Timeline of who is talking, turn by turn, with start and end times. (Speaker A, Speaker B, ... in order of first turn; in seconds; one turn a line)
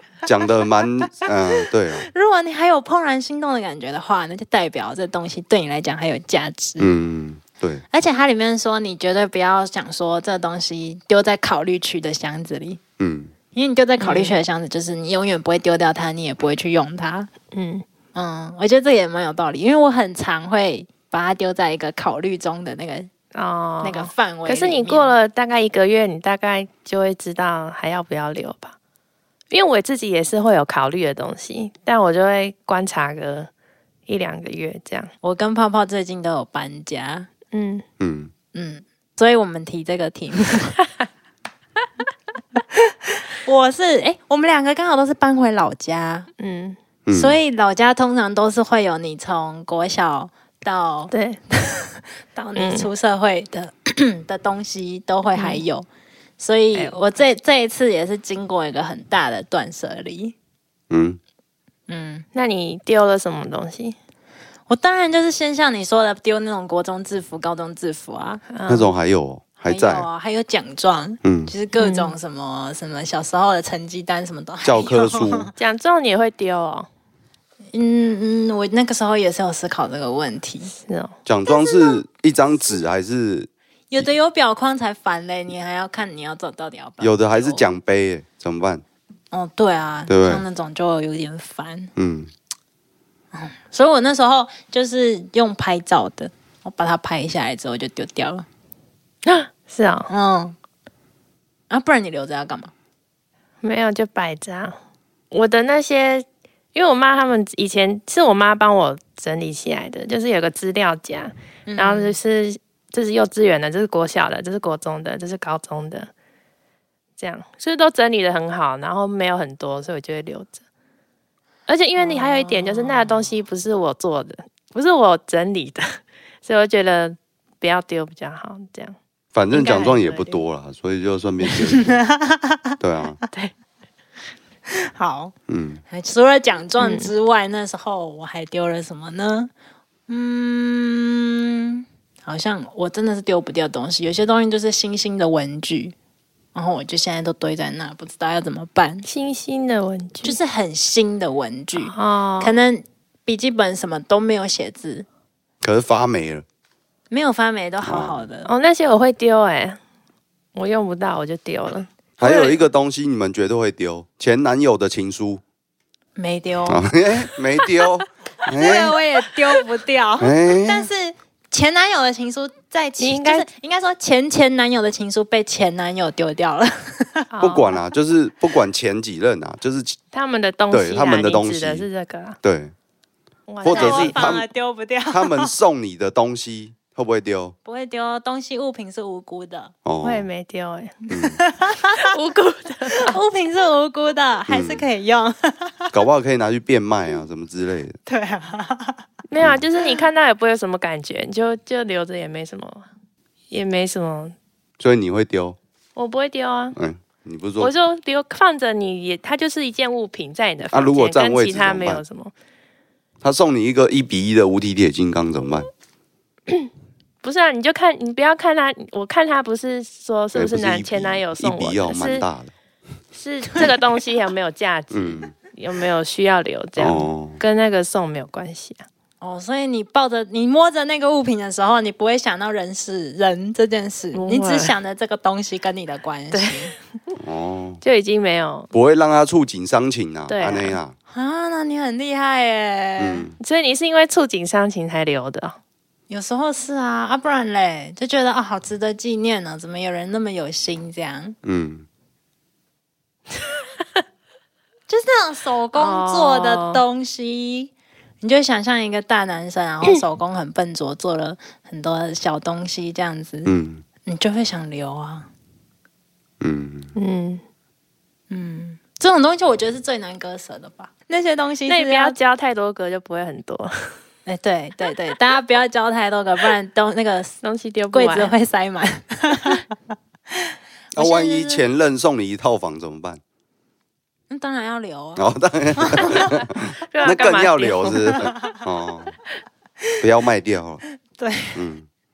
Speaker A: 0.2-2.1
Speaker B: 1.9-6.9
Speaker A: 6.8-7.8
Speaker B: 7.9-12.8
Speaker A: 13.0-13.3
Speaker B: 13.5-17.3
Speaker C: 14.0-14.4
Speaker C: 17.5-17.9
Speaker B: 18.1-23.1
Speaker C: 23.3-28.8
Speaker B: 23.8-25.1
Speaker C: 29.5-33.5
Speaker C: 34.1-35.1
Speaker B: 35.2-37.3
Speaker C: 37.5-37.8
Speaker A: 38.0-38.3
Speaker B: 38.5-40.8
Speaker B: 42.7-46.3
Speaker C: 46.4-46.8
Speaker A: 47.1-47.4
Speaker B: 47.1-55.9
Speaker C: 51.1-51.4
Speaker C: 52.6-52.9
Speaker C: 55.4-55.6
Speaker B: 56.4-60.4
Speaker A: 60.9-61.2
Speaker B: 61.9-62.2
Speaker C: 62.3-64.0
Speaker B: 64.7-68.4
Speaker C: 68.5-68.9
Speaker A: 68.7-70.1
Speaker B: 69.7-75.5
Speaker A: 71.2-71.5
Speaker C: 71.8-72.2
Speaker A: 74.6-75.5
Speaker C: 75.6-76.9
Speaker B: 77.7-80.7
Speaker C: 80.7-81.2
Speaker A: 81.3-84.1
Speaker B: 81.5-82.0
Speaker B: 83.9-87.7
Speaker A: 87.0-88.8
Speaker B: 89.3-91.9
Speaker A: 90.1-90.4
Speaker A: 92.0-92.3
Speaker B: 93.3-98.5
Speaker C: 99.2-100.1
Speaker B: 100.1-100.6
Speaker B: 101.7-102.7
Speaker C: 103.6-104.8
Speaker C: 105.3-116.1
Speaker B: 111.7-112.2
Speaker C: 117.2-120.6
Speaker C: 121.7-129.0
Speaker B: 122.0-123.3
Speaker A: 129.3-132.0
Speaker C: 129.5-130.4
Speaker B: 131.5-132.8
Speaker A: 132.8-133.2
Speaker B: 134.7-135.3
Speaker A: 135.5-135.8
Speaker B: 135.9-139.5
Speaker C: 136.8-137.1
Speaker B: 140.1-145.9
Speaker B: 146.6-149.1
Speaker C: 149.1-150.4
Speaker B: 150.2-155.1
Speaker C: 151.8-152.6
Speaker A: 155.6-156.4
Speaker B: 157.1-158.5
Speaker A: 157.8-158.2
Speaker C: 158.5-159.8
Speaker C: 160.6-162.5
Speaker A: 162.2-165.4
Speaker B: 166.2-167.8
Speaker A: 166.7-169.0
Speaker B: 168.4-177.3
Speaker A: 170.2-170.9
Speaker C: 173.0-173.5
Speaker C: 177.3-177.9
Speaker A: 177.4-180.0
Speaker C: 180.1-182.4
Speaker A: 180.7-181.9
Speaker A: 182.4-182.7
Speaker C: 183.5-184.3
Speaker A: 183.6-184.4
Speaker B: 183.7-185.6
Speaker A: 185.1-187.6
Speaker B: 187.7-189.7
Speaker A: 189.8-190.3
Speaker C: 190.0-191.1
Speaker A: 191.1-191.4
Speaker B: 191.3-192.1
Speaker C: 191.8-193.2
Speaker B: 192.9-195.9
Speaker A: 194.5-194.8
Speaker A: 195.9-198.0
Speaker B: 198.1-199.0
Speaker C: 199.3-202.9
Speaker C: 203.5-204.4
Speaker A: 204.8-205.6
Speaker C: 206.0-206.8
Speaker A: 206.7-207.7
Speaker C: 207.6-212.3
Speaker A: 210.7-212.0
Speaker A: 213.2-215.7
Speaker C: 217.2-222.2
Speaker A: 220.3-222.5
Speaker C: 223.1-228.8
Speaker A: 224.9-225.3
Speaker A: 226.8-227.4
Speaker B: 229.2-236.7
Speaker C: 234.1-234.8
Speaker C: 236.3-236.7
Speaker A: 237.2-237.8
Speaker C: 237.8-238.7
Speaker A: 238.7-240.9
Speaker C: 240.3-240.8
Speaker B: 241.1-243.3
Speaker A: 243.0-243.4
Speaker C: 243.4-245.6
Speaker B: 246.1-251.3
Speaker A: 251.4-251.9
Speaker B: 254.9-263.5
Speaker C: 255.7-256.8
Speaker A: 263.5-263.8
Speaker B: 264.1-265.3
Speaker A: 266.4-266.9
Speaker C: 267.0-267.4
Speaker B: 268.3-272.2
Speaker C: 271.7-273.9
Speaker B: 274.3-277.4
Speaker C: 277.4-278.3
Speaker B: 277.9-279.7
Speaker B: 280.3-281.6
Speaker A: 280.9-283.2
Speaker B: 284.3-286.2
Speaker A: 285.2-289.1
Speaker C: 286.1-288.3
Speaker B: 288.2-288.6
Speaker A: 290.0-290.8
Speaker B: 291.1-291.6
Speaker A: 291.6-291.9